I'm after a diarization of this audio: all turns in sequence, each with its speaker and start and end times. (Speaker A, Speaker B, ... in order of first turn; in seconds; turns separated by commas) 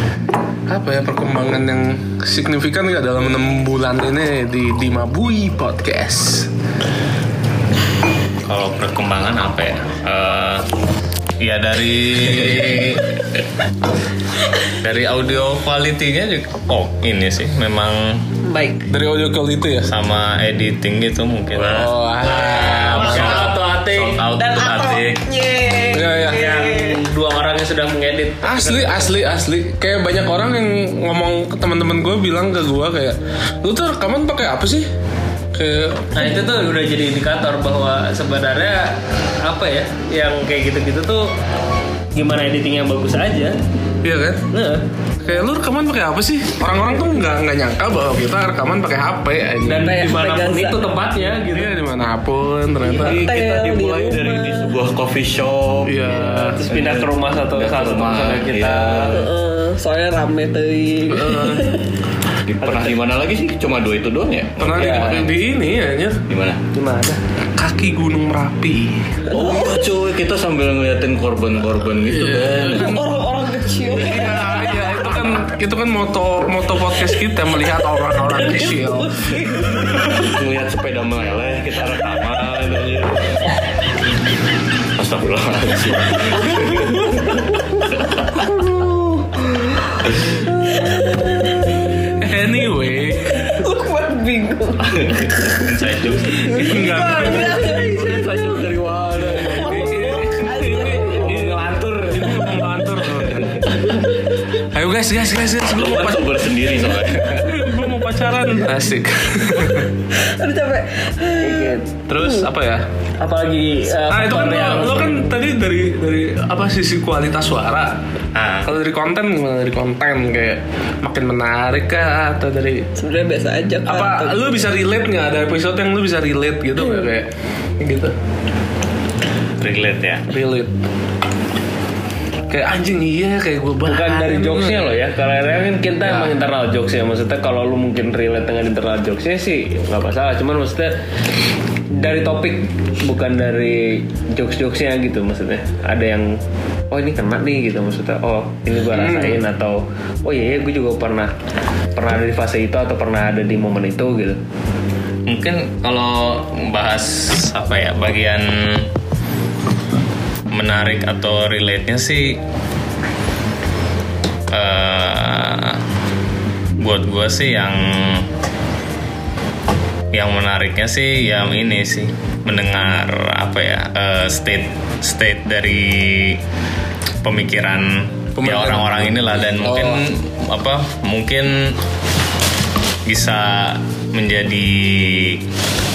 Speaker A: 0.7-6.5, Speaker B: 8.4-10.6, Speaker B: 11.4-13.0, Speaker B: 14.8-18.2, Speaker C: 18.4-18.9, Speaker A: 18.9-19.9, Speaker B: 19.9-25.2, Speaker A: 21.6-23.5, Speaker D: 22.3-24.2, Speaker C: 24.4-27.0, Speaker A: 25.9-26.5, Speaker D: 26.3-29.1, Speaker A: 28.4-34.9, Speaker A: 35.5-36.3, Speaker D: 36.1-38.9, Speaker D: 39.4-41.3, Speaker D: 42.1-43.6, Speaker A: 44.0-44.4, Speaker D: 44.5-44.8, Speaker A: 45.2-50.0, Speaker D: 49.6-51.7, Speaker C: 49.7-50.8, Speaker A: 51.5-53.3, Speaker C: 52.9-54.7, Speaker E: 53.0-59.2, Speaker A: 55.9-56.6, Speaker D: 56.5-59.1, Speaker C: 59.1-61.8, Speaker A: 61.1-61.8, Speaker E: 62.5-65.3, Speaker D: 62.6-62.9, Speaker A: 64.6-66.2, Speaker D: 64.7-65.2, Speaker E: 66.3-66.6, Speaker D: 66.7-67.2, Speaker A: 67.6-69.0, Speaker C: 69.3-69.8, Speaker E: 69.3-73.0, Speaker A: 72.1-73.0, Speaker C: 72.7-75.1, Speaker A: 73.8-80.0, Speaker C: 78.3-80.1, Speaker E: 80.2-83.5, Speaker E: 85.0-87.2, Speaker C: 90.7-91.6, Speaker A: 92.2-93.6, Speaker C: 93.3-95.6, Speaker E: 95.0-95.5, Speaker B: 95.6-96.5, Speaker C: 96.4-98.6, Speaker A: 96.5-97.7, Speaker D: 96.7-100.1, Speaker C: 99.4-101.5, Speaker A: 99.5-103.9, Speaker D: 101.0-102.4, Speaker A: 104.7-106.4, Speaker E: 105.6-107.5, Speaker A: 107.4-109.9, Speaker C: 110.1-112.4, Speaker D: 111.4-111.8, Speaker A: 112.1-112.8, Speaker D: 113.2-115.2, Speaker A: 114.1-117.9, Speaker B: 118.3-118.7, Speaker A: 118.6-122.9, Speaker C: 123.0-124.5, Speaker A: 123.8-127.3, Speaker A: 127.8-128.1, Speaker B: 129.6-130.3, Speaker A: 130.3-130.7, Speaker A: 132.5-134.9, Speaker D: 133.8-140.9, Speaker D: 141.9-146.3, Speaker D: 146.9-151.3, Speaker A: 148.9-149.4, Speaker D: 151.9-154.4, Speaker B: 155.3-158.9, Speaker B: 160.5-162.4, Speaker B: 164.5-165.8, Speaker B: 166.8-168.3, Speaker B: 170.1-176.4, Speaker B: 177.2-181.8, Speaker A: 178.4-180.0, Speaker B: 183.1-185.4